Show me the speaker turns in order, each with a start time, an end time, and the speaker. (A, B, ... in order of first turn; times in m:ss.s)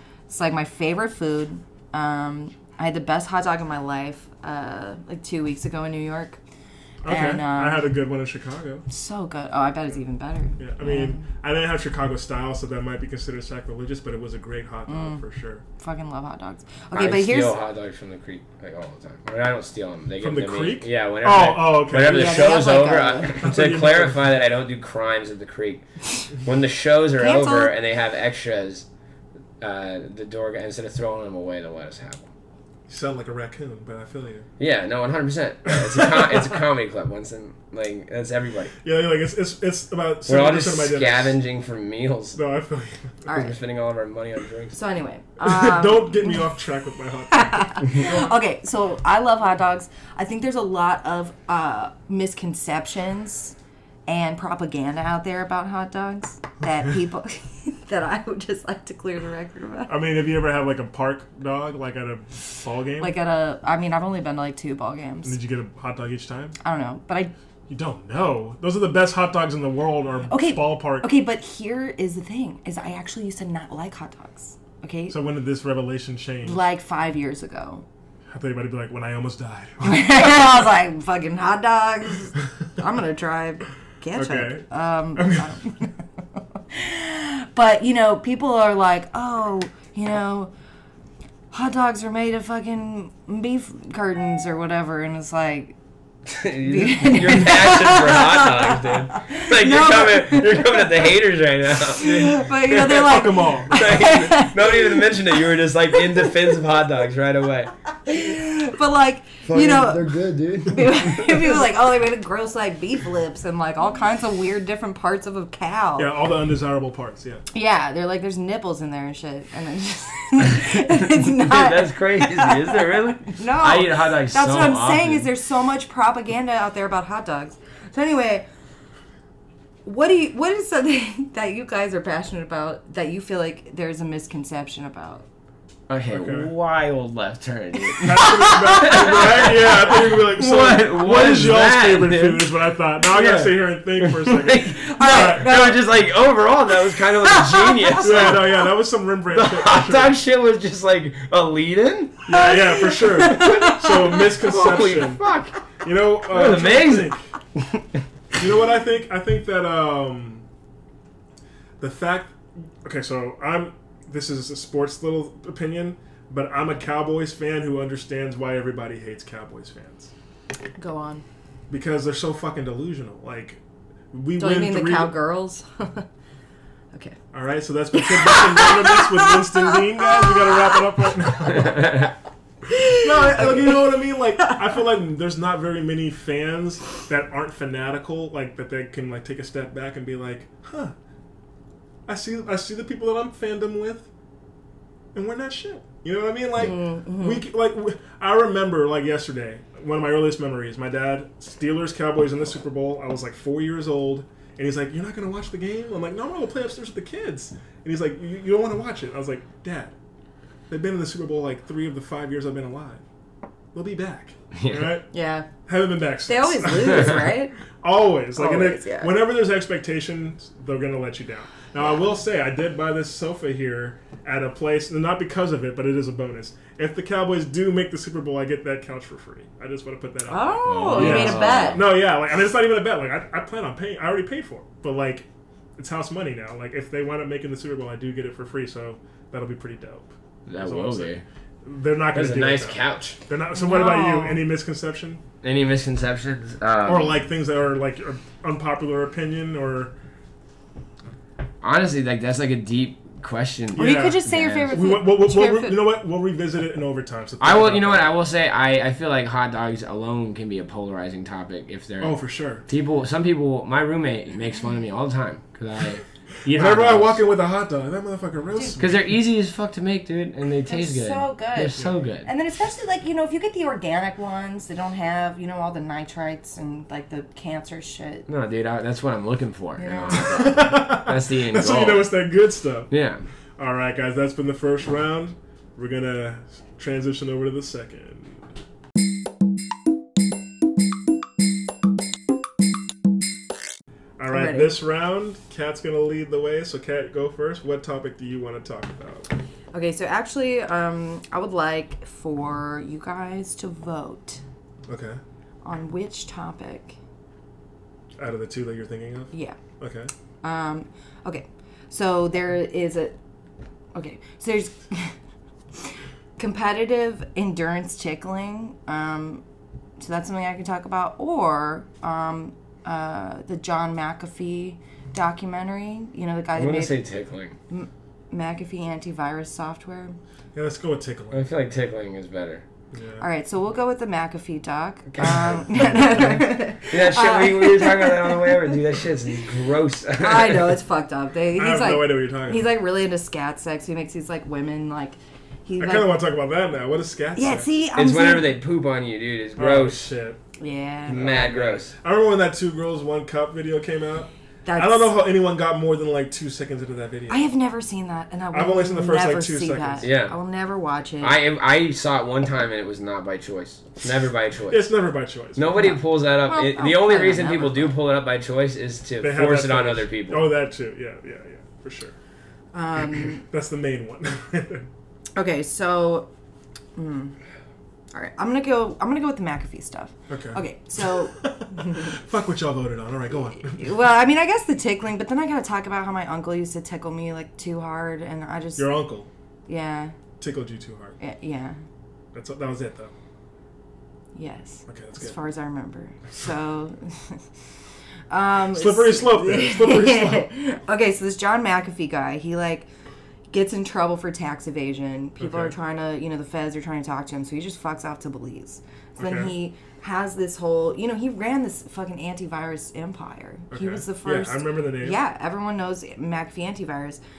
0:00.3-0:06.4 A
0:07.0-0:08.8 B
0:07.1-0:07.9 A
0:08.9-0:11.3 A
0:10.6-0:15.6 B
0:14.9-0:15.2 A
0:15.8-0:17.6 A
0:16.9-0:28.8 C
0:20.2-0:22.5 B
0:22.0-0:23.5 A
0:23.4-0:24.2 B
0:27.2-0:27.7 A
0:29.6-0:32.3 C
0:32.9-0:34.4 B
0:34.6-0:38.7 C
0:35.9-0:36.2 B
0:38.8-0:41.4 B
0:40.3-0:42.4 C
0:42.3-0:43.2 B
0:43.2-0:43.6 A
0:43.3-0:44.8 C
0:44.7-0:46.4 A
0:45.4-0:48.0 B
0:47.3-0:53.6 A
0:54.1-0:59.9 A
0:59.9-1:03.2 B
1:03.0-1:05.4 A
1:05.2-1:06.5 B
1:06.6-1:07.3 A
1:07.7-1:11.1 B
1:10.3-1:15.2 A
1:15.1-1:16.6 B
1:16.4-1:17.8 A
1:18.3-1:20.1 B
1:19.8-1:25.9 A
1:24.1-1:25.6 B
1:26.7-1:30.5 A
1:31.5-1:35.8 A
1:36.3-1:43.1 C
1:36.6-1:41.0 A
1:41.9-1:46.6 A
1:42.6-1:44.1 B
1:43.7-1:47.7 C
1:48.0-1:56.1 A
1:49.4-1:51.6 C
1:56.0-1:57.4 B
1:57.5-2:08.5 A
2:00.6-2:05.3 C
2:09.8-2:15.2 A
2:15.9-2:22.5 C
2:16.1-2:16.5 B
2:18.0-2:25.6 B
2:18.2-2:19.0 A
2:23.0-2:28.7 C
2:24.9-2:25.8 A
2:27.1-2:28.3 A
2:28.0-2:30.2 B
2:29.3-2:32.4 C
2:32.3-2:35.2 B
2:32.3-2:34.2 A
2:33.2-2:35.6 C
2:35.8-2:37.3 B
2:36.3-2:38.0 C
2:38.3-2:40.4 B
2:41.8-2:50.1 B
2:50.8-2:51.2 A
2:51.7-2:53.6 B
2:54.1-2:55.2 B
2:54.4-2:56.0 A
2:56.9-2:57.2 A
2:57.3-3:02.0 B
2:57.9-3:01.7 A
3:01.5-3:02.1 C
3:02.7-3:04.6 A
3:03.0-3:10.9 B
3:12.1-3:14.1 B
3:15.1-3:29.9 B
3:16.6-3:17.4 A
3:30.7-3:33.0 B
3:33.7-3:35.1 B
3:34.5-3:35.0 C
3:35.1-3:35.5 A
3:35.6-4:05.2 B
3:36.2-3:37.5 A
3:38.4-3:39.1 A
3:50.3-3:51.8 A
3:50.6-3:51.9 C
4:00.5-4:01.2 C
4:02.1-4:03.2 C
4:03.5-4:04.4 A
4:05.4-4:07.2 C
4:06.8-4:09.9 B
4:11.6-4:14.8 C
4:13.7-4:18.1 B
4:13.8-4:15.8 A
4:17.4-4:22.2 C
4:22.0-4:22.6 B
4:22.7-4:27.2 C
4:26.5-4:29.1 B
4:28.8-4:32.3 C
4:30.6-4:38.3 A
4:31.8-4:32.1 B
4:38.3-4:42.1 C
4:39.8-4:40.7 A
4:40.1-4:42.9 B
4:42.9-4:43.2 C
4:43.6-4:48.5 B
4:54.2-4:59.3 B
4:54.3-4:54.8 A
4:59.7-5:04.4 A
5:04.9-5:05.2 B
5:05.6-5:07.0 A
5:08.2-5:10.1 B
5:09.3-5:09.6 A
5:10.4-5:13.2 A
5:13.9-5:15.2 A
5:16.4-5:19.4 A
5:20.0-5:27.0 A
5:26.6-5:27.6 C
5:27.7-5:30.2 A
5:30.5-5:31.5 B
5:31.3-5:32.6 C
5:32.9-5:33.2 B
5:33.2-5:38.8 A
5:35.2-5:40.8 C
5:35.8-5:36.3 B
5:40.2-5:46.2 A
5:41.5-5:42.7 B
5:45.8-5:47.7 B
5:47.3-5:48.5 A
5:47.9-5:50.1 C
5:49.6-5:50.4 B
5:50.6-5:51.4 A
5:51.1-5:51.9 C
5:51.1-5:57.4 B
5:54.6-5:55.2 A
5:57.3-6:01.4 A
5:58.5-6:00.1 B
6:00.0-6:00.3 C
6:01.2-6:04.9 C
6:04.7-6:05.8 B
6:05.6-6:10.5 C
6:05.7-6:08.0 A
6:09.2-6:12.1 B
6:12.7-6:13.4 A
6:13.4-6:14.9 B
6:15.4-6:16.3 A
6:17.0-6:17.3 A
6:18.1-6:22.1 A
6:20.3-6:23.9 B
6:23.6-6:28.9 A
6:28.8-6:29.3 B
6:29.7-6:30.1 A
6:30.4-6:31.2 B
6:31.2-6:31.8 A
6:32.3-6:33.1 B
6:34.3-6:37.4 A
6:34.9-6:35.4 B
6:38.3-6:42.9 A
6:38.7-6:40.5 B
6:43.5-6:57.2 A
6:45.4-6:45.7 B
6:49.2-6:49.5 B
6:53.7-6:55.2 B